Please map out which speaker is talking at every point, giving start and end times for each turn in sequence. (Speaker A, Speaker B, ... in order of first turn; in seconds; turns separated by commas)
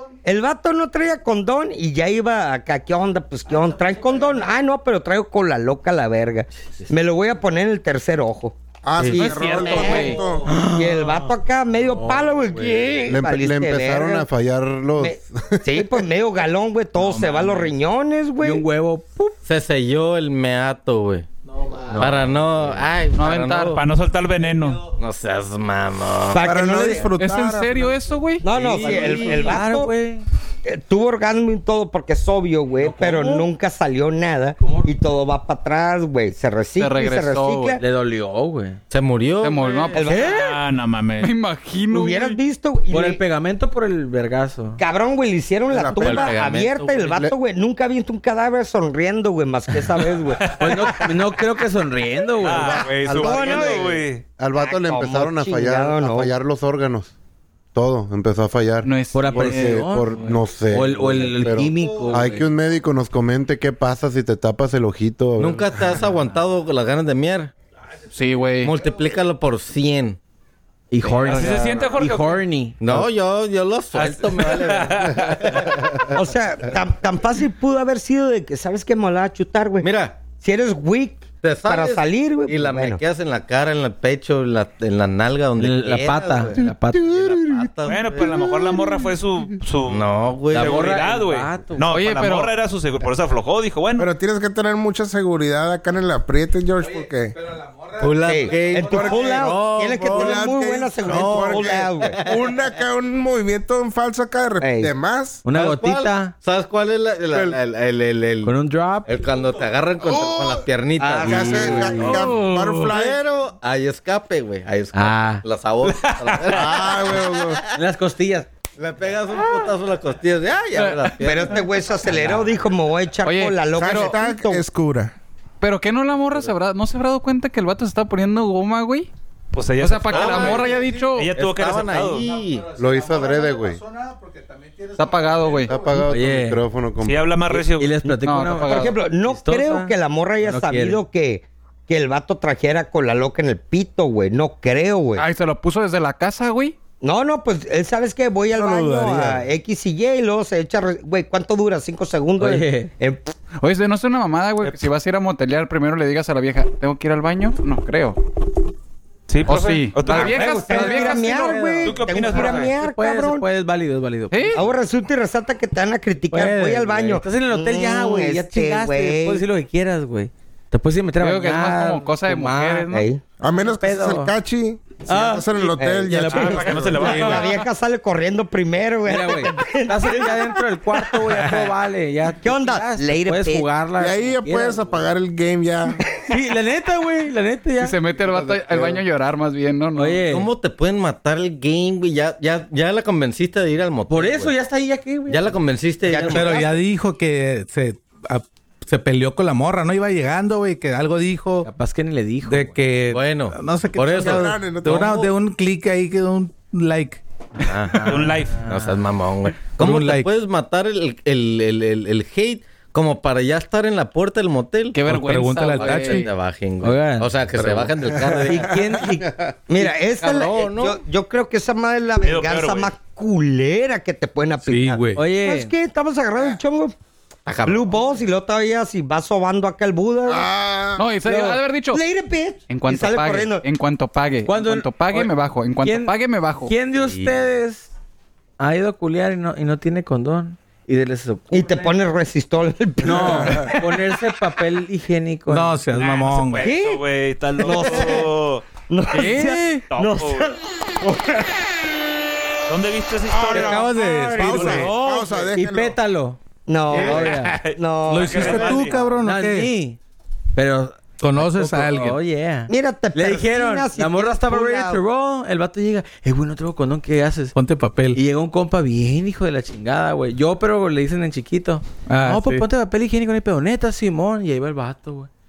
Speaker A: 0.2-14.3, Speaker B: 8.8-10.5, Speaker C: 9.0-9.9, Speaker D: 9.1-10.2, Speaker E: 10.4-11.3, Speaker E: 11.9-12.6, Speaker C: 12.6-13.0, Speaker F: 13.1-16.0, Speaker A: 15.0-18.6, Speaker G: 17.0-17.7, Speaker E: 18.4-19.4, Speaker C: 19.4-21.3, Speaker E: 21.9-22.3, Speaker C: 21.9-23.8, Speaker D: 23.1-23.8, Speaker G: 23.8-24.9, Speaker C: 25.0-26.9, Speaker A: 26.3-27.1, Speaker B: 26.4-28.0, Speaker D: 27.1-28.5, Speaker A: 28.4-29.9, Speaker C: 28.5-29.6, Speaker E: 28.6-30.2, Speaker A: 30.6-37.8, Speaker E: 32.8-33.5, Speaker E: 34.6-34.9, Speaker D: 36.8-37.8, Speaker E: 37.8-38.8, Speaker C: 38.9-39.9, Speaker D: 39.4-40.2, Speaker A: 39.9-40.5, Speaker E: 40.0-40.4, Speaker G: 40.1-41.3, Speaker D: 41.2-42.4, Speaker A: 41.9-43.2, Speaker E: 42.9-44.8, Speaker A: 44.8-50.8, Speaker B: 45.7-46.3, Speaker C: 46.0-47.2, Speaker E: 50.5-52.8, Speaker G: 50.6-50.9, Speaker G: 52.4-54.2, Speaker F: 52.5-57.1, Speaker A: 52.7-54.0, Speaker A: 54.6-56.3, Speaker F: 57.7-65.8, Speaker D: 58.8-59.9, Speaker E: 59.1-62.4, Speaker C: 65.4-67.5, Speaker D: 68.1-68.7, Speaker C: 68.6-70.2, Speaker E: 70.9-73.0, Speaker G: 71.2-72.5, Speaker C: 72.8-76.1, Speaker G: 74.0-75.7, Speaker A: 76.1-83.0, Speaker C: 79.8-80.2, Speaker C: 81.4-88.5, Speaker E: 85.6-87.1, Speaker G: 87.8-94.1, Speaker C: 89.9-91.0, Speaker E: 90.5-91.9, Speaker D: 91.9-92.5, Speaker B: 94.0-97.3, Speaker H: 97.5-98.7, Speaker C: 98.0-100.5, Speaker A: 98.2-102.2, Speaker B: 98.8-105.5, Speaker C: 101.0-102.5, Speaker A: 104.6-104.9, Speaker E: 105.4-106.3, Speaker C: 105.5-112.3, Speaker E: 108.4-109.1, Speaker B: 110.0-113.2, Speaker A: 111.0-112.1, Speaker E: 111.3-112.9, Speaker C: 112.9-117.7, Speaker E: 114.9-116.4, Speaker B: 116.5-117.6, Speaker E: 117.8-118.5, Speaker C: 118.8-122.5, Speaker D: 120.8-121.1, Speaker A: 121.2-124.6, Speaker D: 123.2-124.1, Speaker B: 123.8-125.1, Speaker D: 125.6-129.1, Speaker G: 129.5-132.2, Speaker D: 129.8-131.3, Speaker C: 130.1-130.8, Speaker H: 130.7-131.2, Speaker C: 131.3-132.7, Speaker H: 132.2-136.0, Speaker F: 132.8-133.8, Speaker D: 135.0-135.7, Speaker F: 135.7-137.3, Speaker E: 135.9-136.6, Speaker G: 137.0-138.1, Speaker E: 137.5-141.0, Speaker D: 138.2-139.0, Speaker A: 138.6-145.2, Speaker D: 145.2-146.8, Speaker A: 147.0-153.3, Speaker B: 148.7-149.2, Speaker E: 152.4-152.9, Speaker D: 153.6-158.2, Speaker G: 159.3-160.9, Speaker D: 159.5-161.6, Speaker A: 160.1-163.4, Speaker E: 160.2-164.8, Speaker G: 161.8-162.8, Speaker D: 164.3-164.6, Speaker A: 164.5-169.5, Speaker E: 166.3-172.9, Speaker D: 171.2-173.1, Speaker A: 172.9-173.2, Speaker B: 173.4-176.9, Speaker E: 173.6-174.3, Speaker E: 175.0-177.6, Speaker A: 175.7-181.7, Speaker G: 176.3-177.6, Speaker E: 179.1-185.1, Speaker A: 182.4-183.7, Speaker B: 184.0-186.0, Speaker E: 186.3-188.0, Speaker D: 187.8-190.2, Speaker F: 188.2-189.0, Speaker E: 190.0-190.5, Speaker C: 190.2-194.6, Speaker E: 194.1-195.6, Speaker C: 195.3-196.6, Speaker A: 196.1-196.8, Speaker H: 196.3-201.7, Speaker E: 201.6-202.8, Speaker H: 202.5-207.2, Speaker C: 203.1-205.3, Speaker B: 204.2-205.2, Speaker C: 207.7-215.0, Speaker E: 207.7-209.0, Speaker G: 208.1-208.6, Speaker H: 209.7-210.3, Speaker D: 214.9-216.2, Speaker H: 215.1-216.3, Speaker C: 215.8-218.7, Speaker E: 216.8-217.8, Speaker E: 218.5-219.3, Speaker A: 219.7-226.9, Speaker C: 219.8-221.0, Speaker G: 222.2-222.9, Speaker H: 224.6-225.2, Speaker E: 225.1-225.7, Speaker C: 227.5-228.1, Speaker A: 227.6-230.5, Speaker B: 230.3-231.1, Speaker D: 231.0-232.0, Speaker A: 231.2-233.6, Speaker D: 232.7-236.7, Speaker E: 234.5-237.9, Speaker C: 237.0-237.4, Speaker E: 238.6-241.9, Speaker A: 241.5-243.9, Speaker E: 243.0-245.8, Speaker H: 245.5-246.8, Speaker G: 245.9-248.6, Speaker A: 246.6-247.0, Speaker A: 247.6-248.3, Speaker A: 248.9-250.6, Speaker D: 249.1-249.8, Speaker G: 249.9-250.6, Speaker G: 252.7-254.9, Speaker B: 253.3-256.0, Speaker H: 253.5-254.9, Speaker A: 253.6-254.9, Speaker E: 254.4-256.4, Speaker A: 256.7-258.9, Speaker E: 256.9-257.6, Speaker G: 256.9-259.0, Speaker H: 258.1-259.7, Speaker E: 258.3-260.0, Speaker E: 260.6-267.6, Speaker H: 261.2-262.2, Speaker A: 262.7-265.0, Speaker H: 267.6-268.2, Speaker E: 268.1-275.3, Speaker H: 272.1-272.7